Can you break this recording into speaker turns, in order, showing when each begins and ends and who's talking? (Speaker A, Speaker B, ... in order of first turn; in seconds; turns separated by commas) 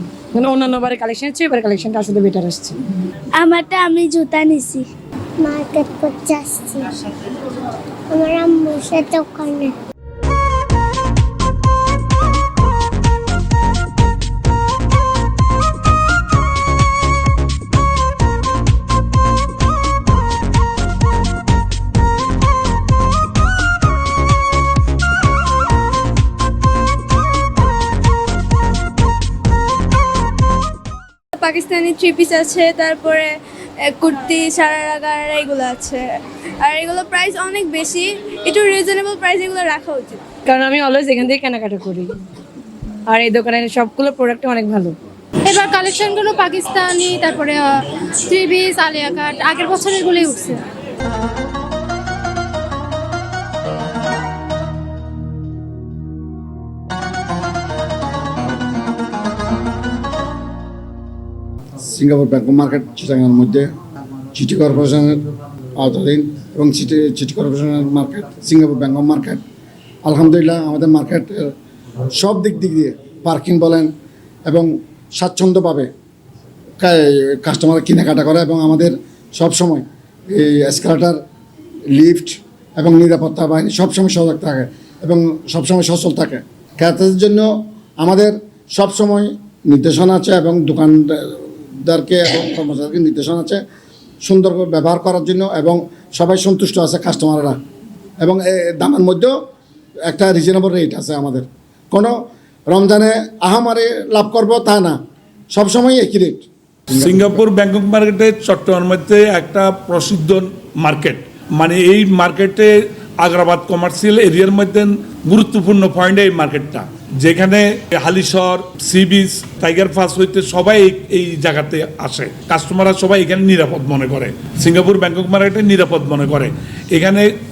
Speaker A: 0.3-2.8, Speaker B: 3.4-4.8, Speaker B: 5.4-7.0, Speaker B: 8.1-9.7, Speaker C: 31.4-33.3, Speaker C: 33.9-40.2, Speaker A: 40.5-42.1, Speaker A: 43.1-44.9, Speaker D: 45.4-50.6, Speaker E: 61.9-63.7, Speaker E: 64.3-65.2, Speaker E: 65.8-69.4, Speaker E: 70.0-71.5, Speaker E: 72.1-73.9, Speaker E: 74.5-75.9, Speaker E: 76.8-81.2, Speaker E: 81.9-93.6, Speaker E: 94.2-97.6, Speaker E: 98.2-99.3, Speaker E: 100.1-102.2, Speaker E: 102.7-105.0, Speaker E: 105.5-107.4, Speaker F: 106.9-127.3